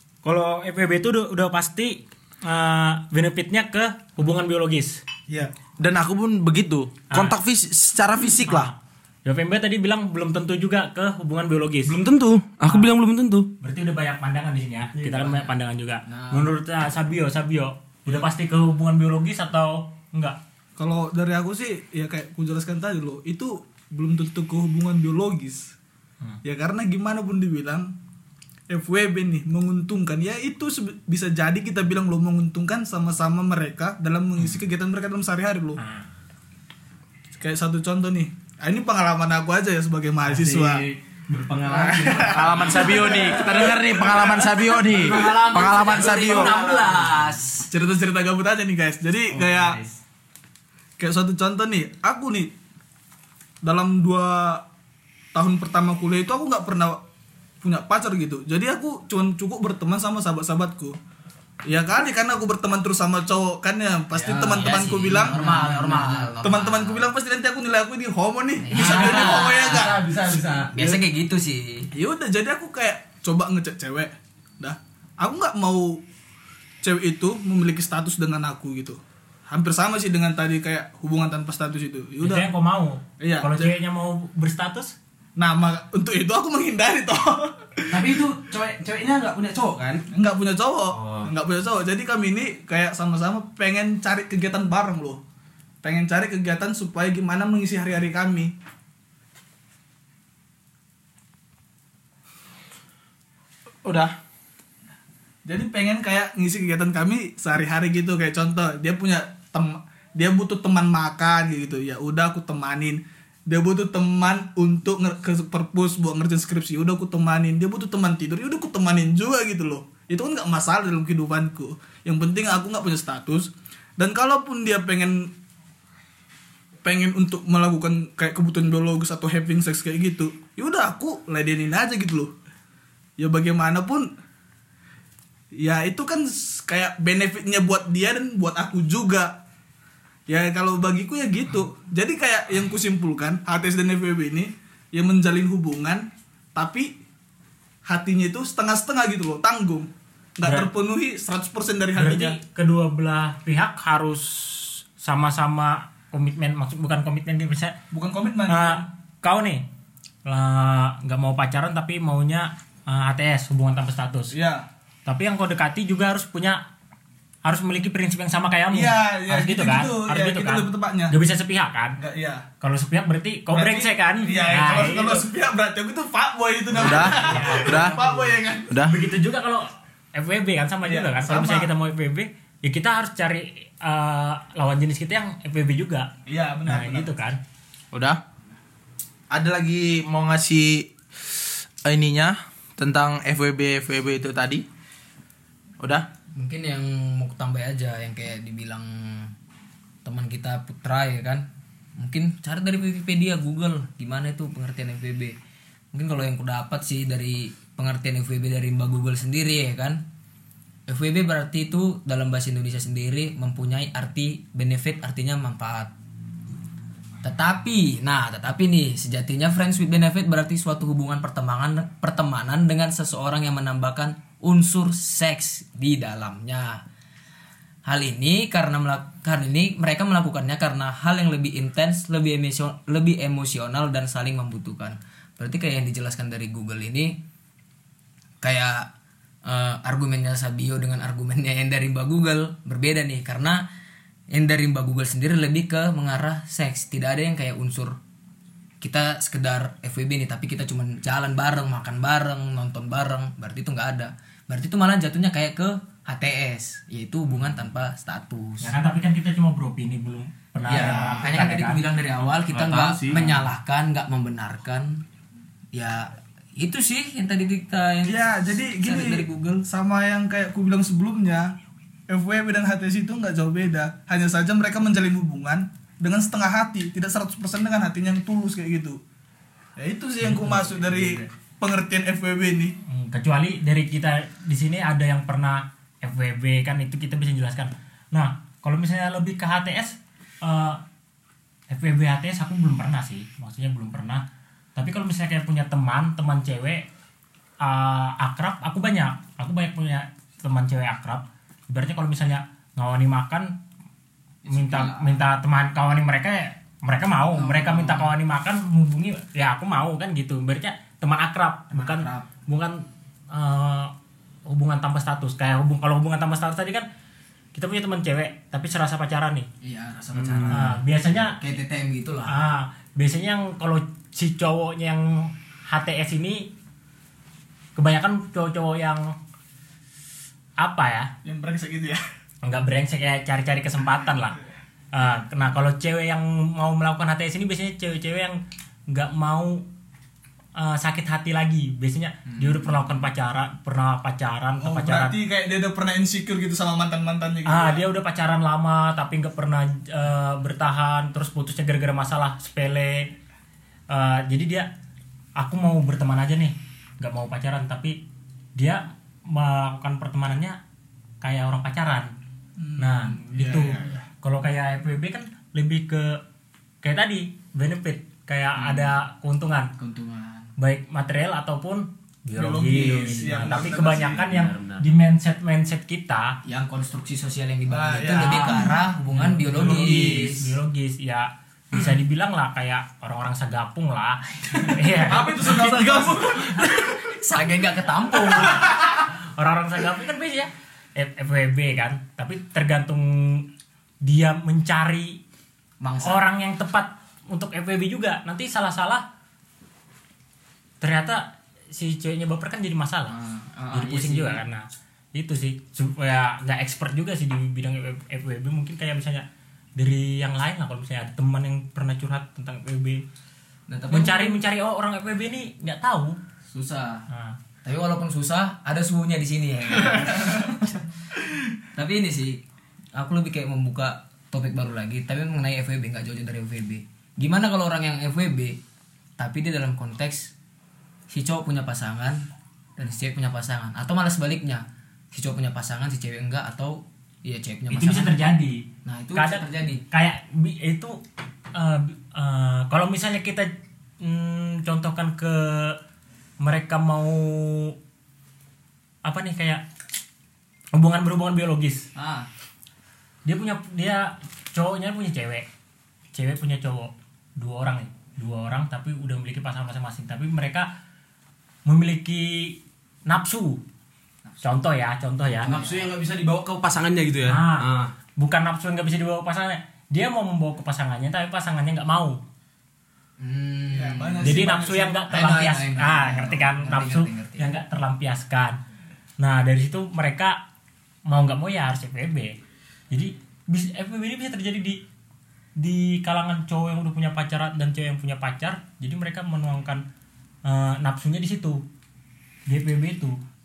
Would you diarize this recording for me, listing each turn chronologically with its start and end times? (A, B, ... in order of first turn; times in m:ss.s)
0:00.2-0:05.0 A
0:05.8-0:08.7 B
0:07.1-0:07.4 A
0:08.5-0:12.0 A
0:11.8-0:13.5 C
0:13.6-0:20.4 A
0:16.1-0:16.5 D
0:20.8-0:25.7 E
0:26.4-0:27.9 E
0:28.7-0:35.8 E
0:35.8-0:36.0 A
0:37.4-0:40.8 E
0:40.3-0:43.5 C
0:41.7-0:46.6 B
0:42.0-0:44.2 E
0:44.9-0:45.4 C
0:44.9-0:47.7 D
0:46.0-0:46.8 C
0:47.7-0:49.8 E
0:49.4-0:49.9 C
0:51.0-0:52.5 E
0:53.6-0:54.6 E
0:55.3-0:57.0 E
0:57.6-1:01.0 E
1:01.7-1:05.9 E
1:04.2-1:07.1 D
1:05.3-1:05.9 C
1:06.4-1:10.0 E
1:08.6-1:09.9 D
1:08.8-1:10.7 C
1:10.7-1:11.9 D
1:11.9-1:16.0 E
1:16.8-1:19.0 E
1:19.5-1:22.5 E
1:22.2-1:24.9 A
1:23.2-1:23.7 E
1:25.4-1:27.8 E
1:27.9-1:30.0 C
1:30.1-1:35.2 E
1:30.9-1:31.3 C
1:35.8-1:38.5 E
1:43.8-1:44.1 B
1:45.4-2:05.3 E
2:06.8-2:12.3 E
2:13.2-2:14.1 E
2:15.6-2:19.3 E
2:20.3-2:26.0 E
2:26.6-2:26.9 E
2:27.9-2:32.4 E
2:32.0-2:37.8 A
2:37.9-2:38.8 E
2:38.5-2:39.6 A
2:40.2-2:44.3 A
2:44.3-2:44.7 E
2:45.0-2:46.6 A
2:47.4-2:52.0 A
2:48.7-2:51.2 E
2:52.0-2:52.4 E
2:52.6-2:55.2 A
2:53.5-2:58.7 E
2:56.7-2:58.0 B
2:56.9-2:58.2 A
2:58.7-2:59.0 B
2:58.8-3:06.1 A
3:00.8-3:01.7 E
3:06.3-3:07.1 E
3:06.7-3:07.4 A
3:07.9-3:08.2 B
3:09.3-3:10.9 B
3:11.8-3:14.6 B
3:15.8-3:16.0 B
3:16.3-3:19.3 D
3:20.0-3:25.4 D
3:25.9-3:30.0 D
3:30.9-3:35.9 D
3:37.2-3:46.8 D
3:47.8-3:57.2 D
3:58.4-3:58.9 D
3:59.4-4:03.6 D
4:04.3-4:08.0 D
4:08.8-4:18.8 D
4:18.6-4:21.8 A
4:20.6-4:25.0 D
4:20.7-4:21.2 E
4:22.5-4:23.4 C
4:25.7-4:28.3 D
4:28.0-4:31.6 E
4:28.8-4:29.6 D
4:32.1-4:39.0 E
4:39.8-4:42.7 E
4:40.8-4:41.2 D
4:42.9-4:50.8 A
4:51.7-4:54.2 A
4:54.8-4:56.8 A
4:57.6-5:03.5 A
5:04.4-5:05.2 D
5:04.5-5:13.9 A
5:07.3-5:08.1 D
5:11.7-5:12.3 D
5:14.4-5:16.8 A
5:17.5-5:19.5 A
5:19.6-5:22.3 D
5:20.1-5:20.7 C
5:20.5-5:21.4 A
5:22.3-5:26.5 A
5:27.8-5:29.1 A
5:30.6-5:31.1 A
5:31.2-5:32.0 E
5:32.4-5:34.4 A
5:34.9-5:39.6 A
5:40.6-5:45.2 A
5:44.6-5:47.8 E
5:47.4-5:53.1 A
5:53.9-5:54.7 A
5:55.4-5:58.0 A
5:58.6-6:00.6 A
6:01.2-6:02.1 A
6:02.6-6:04.0 E
6:02.8-6:06.2 A
6:06.8-6:09.7 A
6:09.8-6:10.5 D
6:10.6-6:16.4 A
6:12.3-6:14.2 E
6:13.3-6:14.8 C
6:16.4-6:20.4 D
6:17.7-6:18.6 E
6:18.0-6:26.2 A
6:19.5-6:20.4 E
6:25.0-6:26.5 E
6:25.2-6:25.8 C
6:26.3-6:28.7 D
6:28.8-6:33.5 A
6:34.0-6:35.2 A
6:35.8-6:36.2 D
6:36.0-6:39.0 A
6:40.8-6:43.2 A
6:43.1-6:44.4 D
6:43.7-6:53.0 A
6:53.7-6:54.4 D
6:53.9-6:56.2 A
6:56.5-6:57.0 D
6:57.1-6:57.4 A
6:57.6-7:00.8 D
7:01.8-7:02.4 D
7:02.9-7:08.6 D
7:09.2-7:10.3 D
7:11.1-7:12.2 D
7:12.8-7:18.2 D
7:17.7-7:18.6 A
7:18.8-7:19.8 D
7:19.1-7:21.0 A
7:21.5-7:25.8 A
7:26.4-7:27.7 A
7:29.0-7:29.6 A
7:30.7-7:31.9 A
7:31.9-7:32.3 D
7:33.2-7:35.4 A
7:36.1-7:40.7 A
7:41.6-7:43.6 A
7:44.4-7:45.5 A
7:45.4-7:45.9 D
7:45.4-7:47.9 C
7:47.3-7:47.6 A
7:48.2-7:52.2 A
7:53.2-7:54.4 D
7:53.7-7:55.0 E
7:54.2-7:58.6 A
7:55.1-7:57.5 D
7:59.2-8:00.4 A
8:01.1-8:02.4 A
8:02.9-8:04.8 A
8:05.6-8:09.8 A
8:10.4-8:11.6 A
8:12.5-8:13.2 A